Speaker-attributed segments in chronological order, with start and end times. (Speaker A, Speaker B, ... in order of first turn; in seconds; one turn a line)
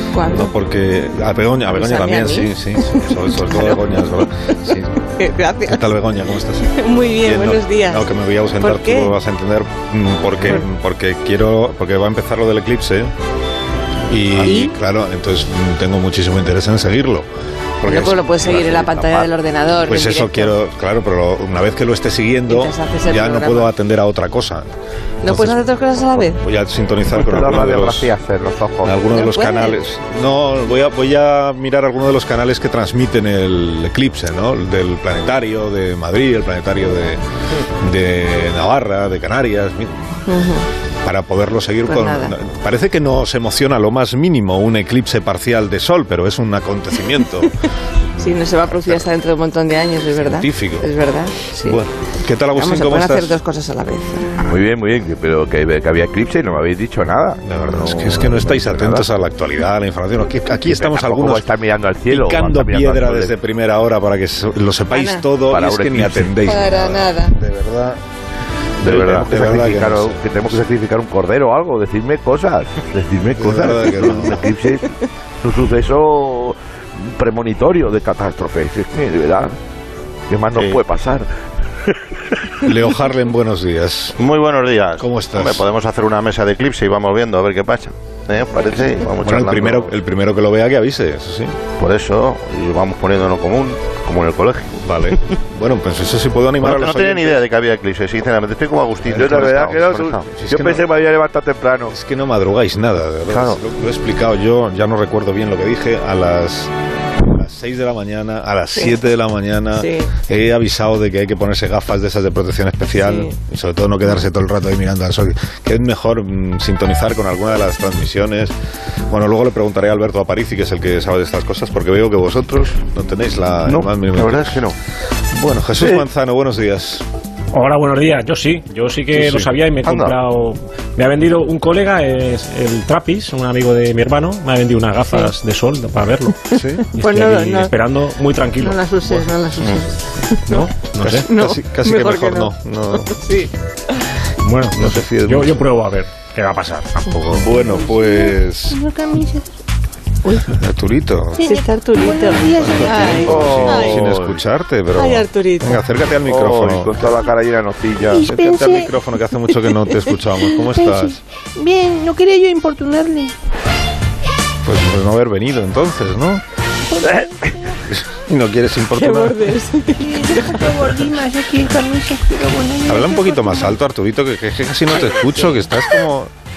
Speaker A: 0.1-0.5
Speaker B: 0.3-5.1
Speaker A: 1.7-4.5
Speaker A: 5.2-5.9
Speaker B: 5.6-13.1
Speaker A: 6.7-8.1
Speaker A: 8.6-9.2
Speaker B: 14.1-17.3
Speaker A: 14.4-14.7
Speaker B: 17.8-19.3
Speaker A: 17.9-20.5
Speaker B: 19.8-24.7
Speaker A: 22.5-23.7
Speaker A: 25.2-26.4
Speaker B: 25.2-28.1
Speaker C: 27.1-28.9
Speaker B: 28.8-37.2
Speaker A: 29.1-29.8
Speaker B: 37.8-40.2
Speaker A: 40.3-40.7
Speaker B: 41.0-47.5
Speaker A: 41.9-42.3
Speaker A: 48.2-51.8
Speaker B: 48.7-49.0
Speaker B: 50.2-50.9
Speaker B: 51.6-53.4
Speaker A: 52.5-54.3
Speaker C: 54.4-59.1
Speaker B: 57.4-61.5
Speaker C: 60.7-63.3
Speaker B: 62.1-68.0
Speaker A: 64.9-65.2
Speaker C: 65.5-66.3
Speaker A: 66.4-67.4
Speaker B: 68.8-70.3
Speaker C: 68.8-74.9
Speaker B: 73.3-74.5
Speaker C: 75.4-79.6
Speaker C: 80.3-81.3
Speaker D: 80.5-80.8
Speaker B: 82.6-84.2
Speaker D: 84.2-89.9
Speaker B: 85.0-85.7
Speaker B: 89.2-91.6
Speaker D: 91.8-94.8
Speaker B: 94.8-97.4
Speaker D: 96.6-100.2
Speaker B: 99.1-100.9
Speaker C: 99.2-101.9
Speaker B: 101.9-118.6
Speaker D: 103.3-103.6
Speaker A: 109.8-110.1
Speaker A: 113.0-113.3
Speaker B: 119.1-124.7
Speaker D: 123.7-124.8
Speaker B: 125.3-127.1
Speaker E: 127.5-139.3
Speaker D: 129.2-130.2
Speaker B: 136.5-136.8
Speaker A: 136.6-137.7
Speaker A: 138.6-140.7
Speaker E: 140.5-141.3
Speaker B: 141.0-143.2
Speaker A: 141.3-144.0
Speaker E: 144.4-147.1
Speaker B: 144.7-145.7
Speaker B: 147.1-148.8
Speaker F: 147.5-149.5
Speaker A: 150.2-150.5
Speaker B: 150.5-151.4
Speaker F: 151.4-153.4
Speaker A: 151.4-154.1
Speaker B: 152.4-157.2
Speaker C: 153.2-154.4
Speaker A: 154.9-155.8
Speaker C: 156.2-158.2
Speaker F: 158.1-158.9
Speaker B: 158.2-161.2
Speaker F: 160.7-163.3
Speaker B: 164.7-166.4
Speaker F: 166.9-167.3
Speaker B: 167.9-169.4
Speaker A: 168.9-170.6
Speaker F: 170.0-173.7
Speaker B: 172.9-176.3